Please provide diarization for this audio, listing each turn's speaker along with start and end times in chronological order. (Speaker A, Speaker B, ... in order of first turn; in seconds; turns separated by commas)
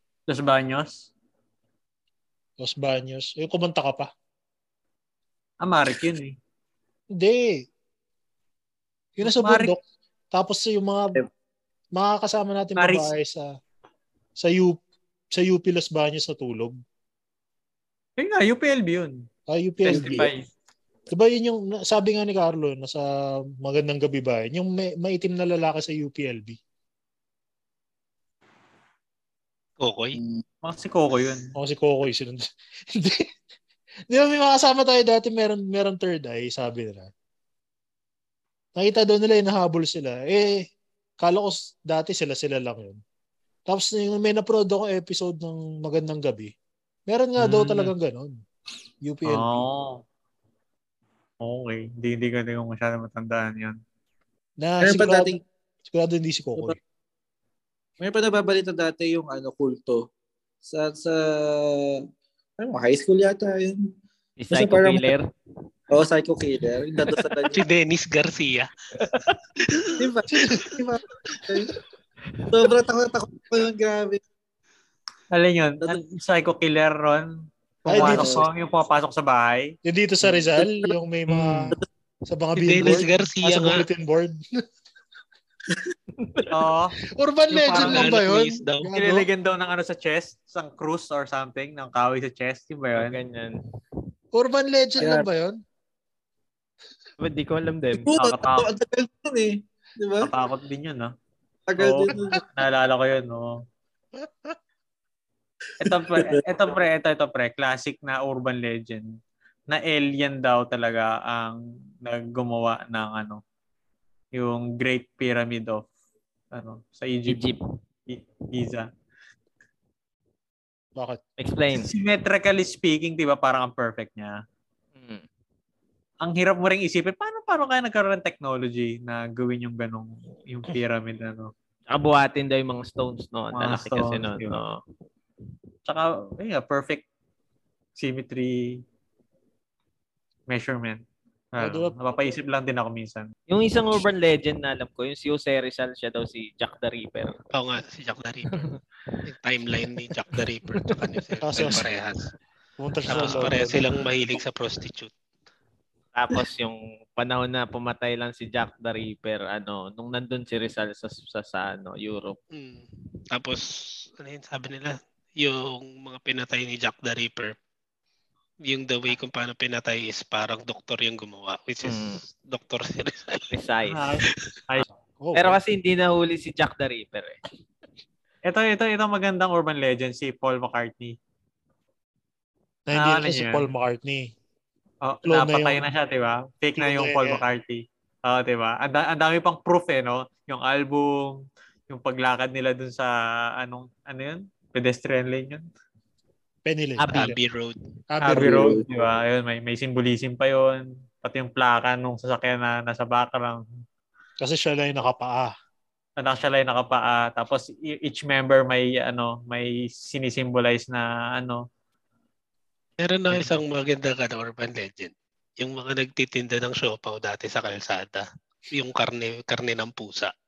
Speaker A: 0.3-1.1, Speaker B: 2.6-4.1, Speaker A: 5.6-6.3, Speaker B: 7.1-7.6, Speaker B: 9.2-9.8, Speaker A: 9.2-9.7, Speaker B: 10.3-11.2, Speaker B: 11.9-13.5, Speaker A: 12.8-13.1, Speaker B: 14.4-14.8, Speaker B: 15.3-16.8, Speaker A: 18.2-19.2, Speaker B: 19.5-20.3, Speaker A: 19.8-20.4, Speaker C: 20.0-20.3, Speaker B: 21.1-23.0, Speaker B: 23.6-26.6, Speaker D: 29.8-30.2, Speaker A: 30.6-31.5, Speaker B: 31.6-33.3, Speaker B: 34.1-37.1, Speaker B: 38.8-40.6, Speaker B: 41.2-43.0, Speaker B: 43.7-46.5, Speaker B: 47.1-48.3, Speaker A: 47.4-47.9, Speaker B: 49.0-49.6, Speaker A: 49.3-50.0, Speaker A: 51.4-53.8, Speaker B: 54.6-56.8, Speaker C: 54.8-55.4, Speaker C: 58.0-60.0, Speaker C: 60.6-62.0, Speaker C: 62.6-63.8, Speaker E: 64.4-65.3, Speaker C: 64.5-65.1, Speaker C: 65.9-67.6, Speaker D: 67.5-68.7, Speaker E: 69.0-69.3, Speaker C: 70.0-71.7, Speaker B: 70.3-70.7, Speaker C: 72.5-74.2, Speaker A: 75.3-77.3, Speaker A: 77.8-79.7, Speaker B: 77.9-78.4, Speaker C: 78.0-78.4, Speaker B: 79.8-81.8, Speaker B: 82.3-84.4, Speaker D: 82.6-83.8, Speaker E: 86.2-86.5, Speaker A: 86.5-87.0, Speaker B: 87.2-89.3, Speaker A: 87.5-88.1, Speaker D: 87.7-88.9, Speaker A: 89.0-93.2, Speaker E: 92.9-93.6, Speaker B: 94.3-95.6, Speaker C: 95.0-95.3, Speaker E: 97.2-98.1, Speaker C: 98.1-100.3, Speaker A: 98.2-98.7, Speaker A: 100.2-101.1, Speaker C: 101.7-102.4, Speaker A: 101.8-103.5, Speaker B: 104.2-104.5, Speaker A: 105.8-109.0, Speaker C: 106.1-106.4, Speaker A: 109.7-113.4, Speaker A: 114.3-115.8, Speaker A: 116.5-117.4, Speaker E: 117.3-117.6, Speaker A: 118.1-118.9, Speaker E: 121.4-121.9, Speaker A: 121.7-124.4, Speaker E: 125.0-125.2, Speaker A: 126.2-131.5, Speaker E: 131.9-134.8, Speaker A: 133.5-134.5, Speaker A: 135.8-137.0, Speaker A: 138.0-138.8, Speaker A: 140.5-141.0, Speaker A: 141.6-143.3, Speaker B: 141.6-142.0, Speaker E: 143.5-147.3, Speaker D: 147.5-148.7, Speaker E: 148.5-148.8, Speaker D: 149.3-152.2, Speaker E: 150.3-151.1, Speaker B: 151.4-151.9, Speaker B: 152.8-153.8, Speaker D: 153.1-155.1, Speaker E: 153.2-153.6, Speaker E: 156.1-162.4, Speaker D: 162.5-167.5, Speaker D: 168.7-173.5, Speaker E: 171.8-172.2, Speaker E: 173.5-174.1, Speaker A: 173.9-174.8, Speaker B: 175.2-175.6, Speaker E: 175.3-177.4, Speaker A: 178.5-181.1, Speaker B: 182.9-184.3, Speaker A: 182.9-183.7, Speaker A: 185.0-195.6, Speaker B: 185.2-185.8, Speaker B: 186.8-187.4, Speaker B: 196.6-197.3, Speaker E: 197.0-197.3, Speaker D: 197.1-197.8, Speaker B: 198.1-198.8, Speaker A: 198.2-203.6, Speaker C: 198.4-198.8, Speaker B: 204.4-205.5, Speaker A: 206.2-211.6, Speaker D: 213.0-220.3